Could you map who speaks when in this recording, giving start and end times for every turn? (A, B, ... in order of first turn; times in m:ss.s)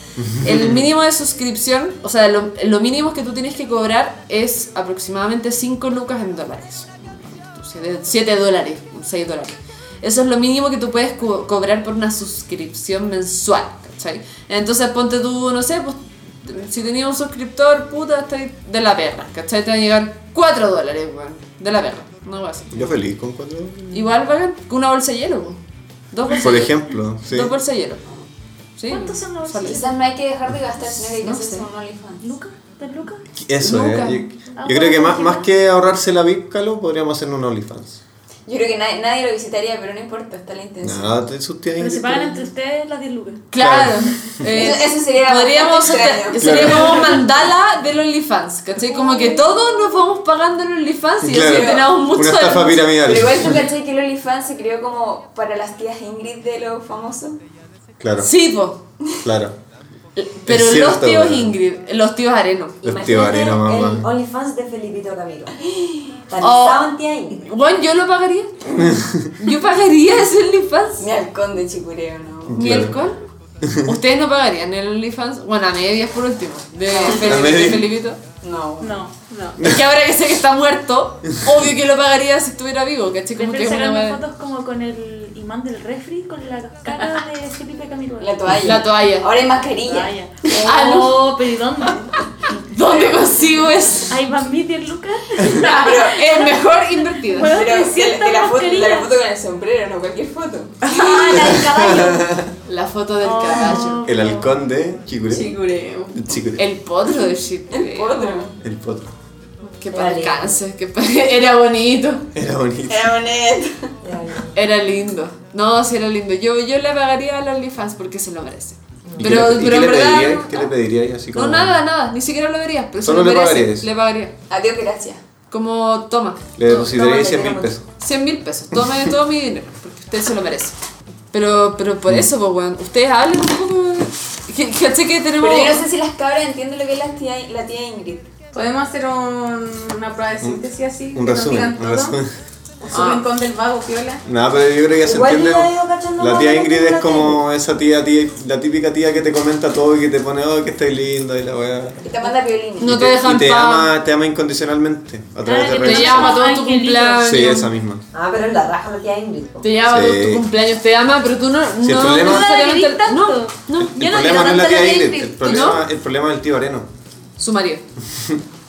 0:00.2-0:00.9 A
0:00.4-0:22.8 B
0:22.7-0:24.1 A
0:23.9-0:25.6 B
0:26.1-0:28.0 B
0:26.3-0:27.5 A
0:28.8-0:29.9 B
0:28.9-0:29.9 C
0:29.6-0:32.3 D
0:30.9-0:31.7 B
0:32.2-0:33.2 C
0:33.4-0:38.0 A
0:33.6-0:34.3 B
0:34.6-0:35.4 C
0:38.5-0:41.1 D
0:40.8-0:42.5 A
0:41.8-0:43.4 C
0:43.5-0:52.9 B
0:43.6-0:44.3 A
0:44.4-0:47.2 D
0:46.4-0:47.2 A
0:49.1-0:49.4 C
0:51.2-0:53.6 A
0:51.4-0:52.0 D
0:53.0-0:57.4 D
0:58.0-0:58.3 A
0:58.2-0:58.8 B
0:59.2-0:59.6 A
1:00.2-1:02.8 B
1:00.5-1:01.6 A
1:02.8-1:04.1 A
1:02.8-1:05.5 E
1:05.6-1:06.1 D
1:06.3-1:07.5 E
1:06.4-1:11.1 B
1:08.8-1:09.3 A
1:11.0-1:12.6 D
1:12.5-1:13.0 A
1:12.5-1:13.2 B
1:13.6-1:13.9 A
1:13.8-1:18.2 B
1:16.9-1:17.7 D
1:17.2-1:17.9 A
1:18.4-1:19.1 D
1:18.8-1:19.1 C
1:19.2-1:19.6 F
1:19.6-1:24.2 B
1:23.4-1:28.5 C
1:28.2-1:31.0 D
1:28.6-1:29.3 B
1:29.8-1:32.1 C
1:30.6-1:31.2 B
1:32.6-1:34.1 B
1:32.9-1:33.3 C
1:34.0-1:36.6 C
1:35.6-1:36.5 D
1:35.6-1:37.6 B
1:37.2-1:39.1 C
1:37.5-1:41.9 D
1:40.9-1:42.3 C
1:41.4-1:42.5 A
1:42.7-1:44.0 B
1:43.2-1:44.5 C
1:44.0-1:45.6 A
1:45.3-1:46.1 F
1:46.1-1:46.6 A
1:46.6-1:48.4 B
1:47.7-1:48.6 D
1:48.6-1:49.1 A
1:49.6-1:52.2 B
1:49.9-1:50.6 E
1:52.4-1:53.2 A
1:52.9-1:53.9 D
1:54.0-1:54.4 E
1:54.6-2:00.7 B
1:59.1-1:59.4 E
1:59.2-2:01.8 A
2:01.3-2:04.3 B
2:03.0-2:03.9 A
2:04.5-2:05.2 D
2:05.5-2:06.7 B
2:06.6-2:07.9 A
2:06.6-2:07.7 E
2:08.0-2:10.8 B
2:11.3-2:15.8 B
2:15.4-2:18.3 D
2:18.5-2:22.2 F
2:20.4-2:22.3 A
2:22.9-2:24.2 F
2:22.9-2:23.3 B
2:24.2-2:32.0 A
2:25.0-2:27.4 E
2:32.0-2:33.0 D
2:32.8-2:33.9 B
2:32.8-2:36.5 A
2:35.4-2:37.5 C
2:35.8-2:37.7 B
2:37.2-2:38.0 A
2:38.1-2:39.6 E
2:39.6-2:44.0 B
2:39.9-2:40.5 A
2:41.8-2:42.5 A
2:42.0-2:45.7 C
2:43.8-2:46.9 A
2:45.4-2:45.8 B
2:47.4-2:47.8 B
2:48.1-2:48.4 A